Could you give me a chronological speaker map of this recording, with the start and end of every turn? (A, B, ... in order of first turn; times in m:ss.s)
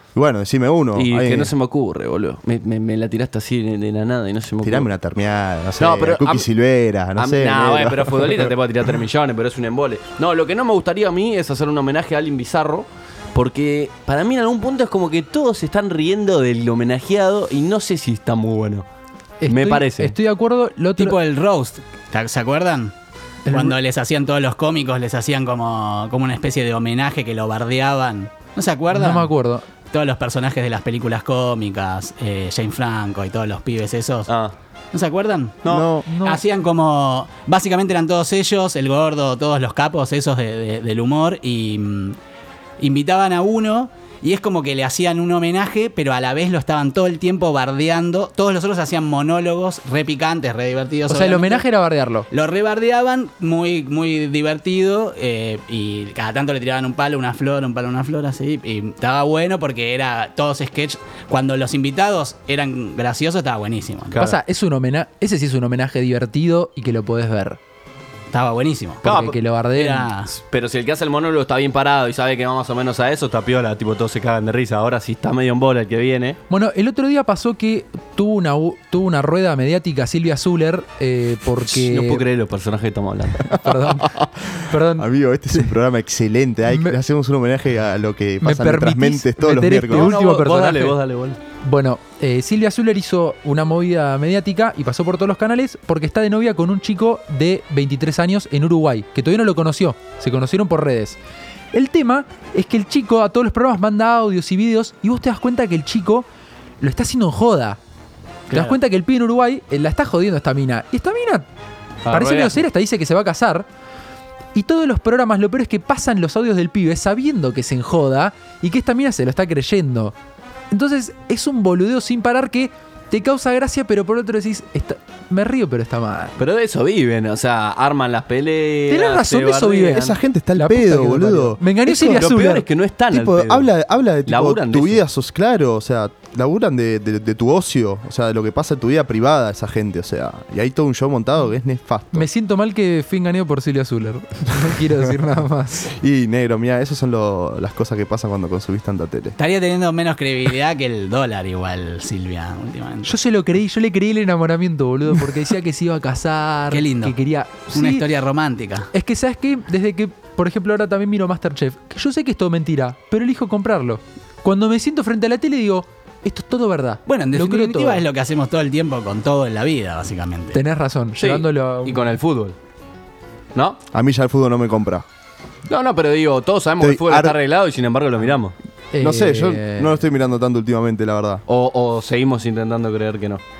0:00.2-0:01.5 A
0:01.0-0:04.9 B
0:04.6-0:08.5 A
0:05.8-0:06.5 B
0:07.2-0:18.8 B
0:19.4-0:21.2 C
0:19.5-0:20.1 B
0:21.0-0:22.9 D
0:23.5-0:23.8 C
0:23.5-0:29.3 D
0:28.9-0:29.6 C
0:29.9-0:34.3 D
0:34.3-0:34.5 B
0:34.9-0:35.6 D
0:35.7-0:36.1 A
0:36.1-0:36.4 C
0:36.2-0:42.2 D
0:42.8-0:51.6 D
0:51.1-0:52.3 C
0:52.3-1:04.2 D
1:04.2-1:07.6 C
1:08.3-1:09.0 D
1:09.0-1:10.1 C
1:09.0-1:09.4 B
1:09.7-1:10.3 D
1:10.4-1:16.4 B
1:16.5-1:22.2 C
1:21.7-1:23.5 B
1:23.6-1:25.7 C
1:23.7-1:30.1 A
1:26.7-1:27.0 C
1:28.4-1:31.0 C
1:29.9-1:31.4 B
1:31.6-1:41.2 C
1:41.7-1:46.3 C
1:46.8-1:47.8 C
1:48.5-1:51.5 C
1:48.5-1:48.8 D
1:52.0-1:52.6 B
1:52.1-1:53.7 C
1:54.5-2:00.1 C
2:00.7-2:06.4 C
2:06.4-2:10.2 B
2:08.9-2:12.6 C
2:09.9-2:11.6 A
2:11.9-2:13.7 B
2:13.1-2:22.3 A
2:14.3-2:15.0 B
2:22.1-2:25.9 C
2:25.9-2:29.4 A
2:29.4-2:33.1 D
2:33.0-2:38.0 C
2:36.7-2:37.2 D
2:37.7-2:38.9 D
2:38.9-2:48.0 C
2:47.1-2:50.6 D
2:50.5-2:52.1 C
2:51.2-2:52.6 B
2:53.9-2:55.0 A
2:55.7-2:58.6 B
2:56.8-2:57.4 A
2:58.9-3:00.0 C
2:59.0-3:01.4 A
3:01.5-3:03.4 B